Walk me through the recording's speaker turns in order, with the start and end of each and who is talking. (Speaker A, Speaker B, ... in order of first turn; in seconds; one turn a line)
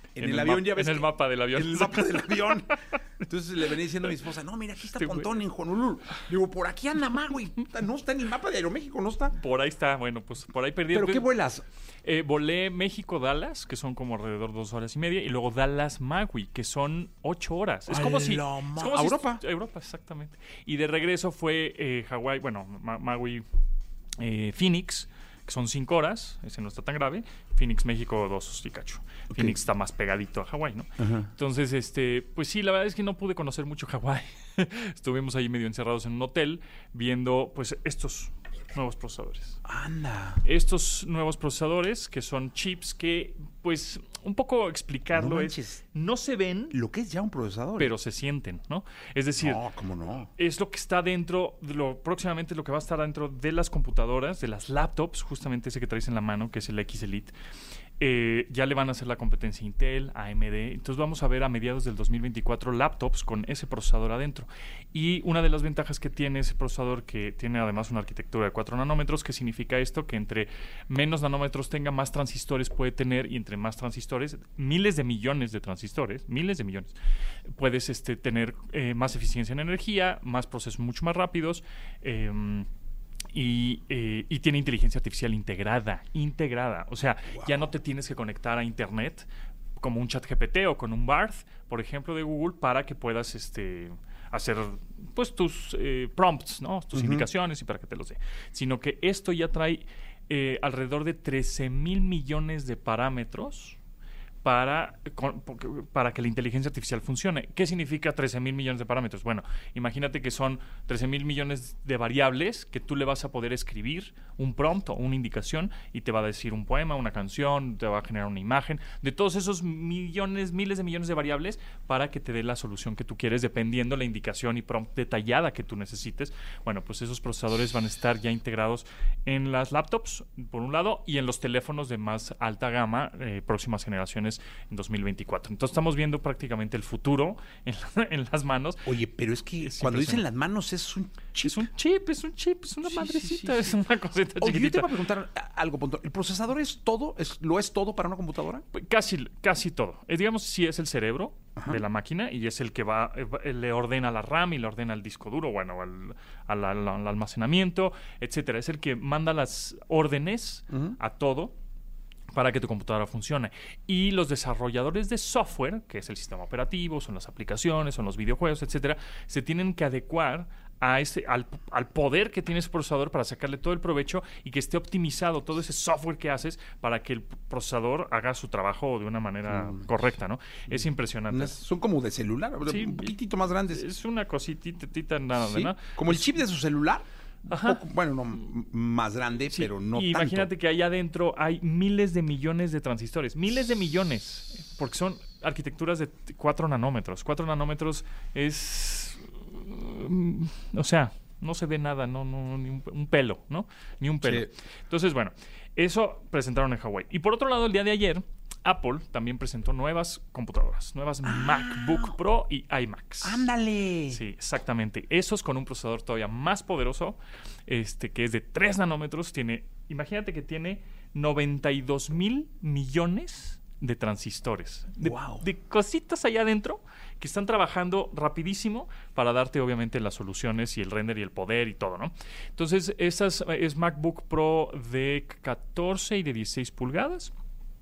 Speaker A: 0.2-9.3
Speaker B: 0.2-3.0
Speaker B: 4.9-5.3
Speaker B: 9.3-11.3
Speaker A: 10.9-11.7
Speaker B: 12.0-23.5
Speaker A: 17.9-19.4
Speaker B: 24.2-39.6
Speaker A: 29.3-29.6
Speaker A: 31.0-31.3
Speaker A: 39.6-40.4
Speaker B: 40.4-46.8
Speaker A: 45.1-45.8
Speaker A: 46.7-47.9
Speaker B: 47.8-49.6
Speaker A: 49.4-50.3
Speaker B: 50.4-57.3
Speaker B: 58.0-77.0
Speaker B: 77.5-82.7
Speaker B: 83.3-103.8
Speaker A: 87.3-87.7
Speaker A: 96.9-97.3
Speaker B: 104.4-139.0
Speaker A: 138.8-141.7
Speaker B: 139.6-140.3
Speaker B: 141.4-145.0
Speaker A: 142.8-148.6
Speaker B: 148.7-161.6
Speaker A: 151.6-151.8
Speaker A: 160.7-161.0
Speaker B: 162.3-181.6
Speaker A: 179.5-179.9
Speaker A: 180.7-183.8
Speaker B: 182.7-186.3
Speaker A: 185.4-190.5
Speaker B: 187.5-187.8
Speaker B: 189.5-213.5
Speaker A: 204.2-204.5
Speaker A: 211.2-212.2
Speaker A: 213.2-214.2
Speaker B: 214.1-237.3
Speaker A: 225.0-225.5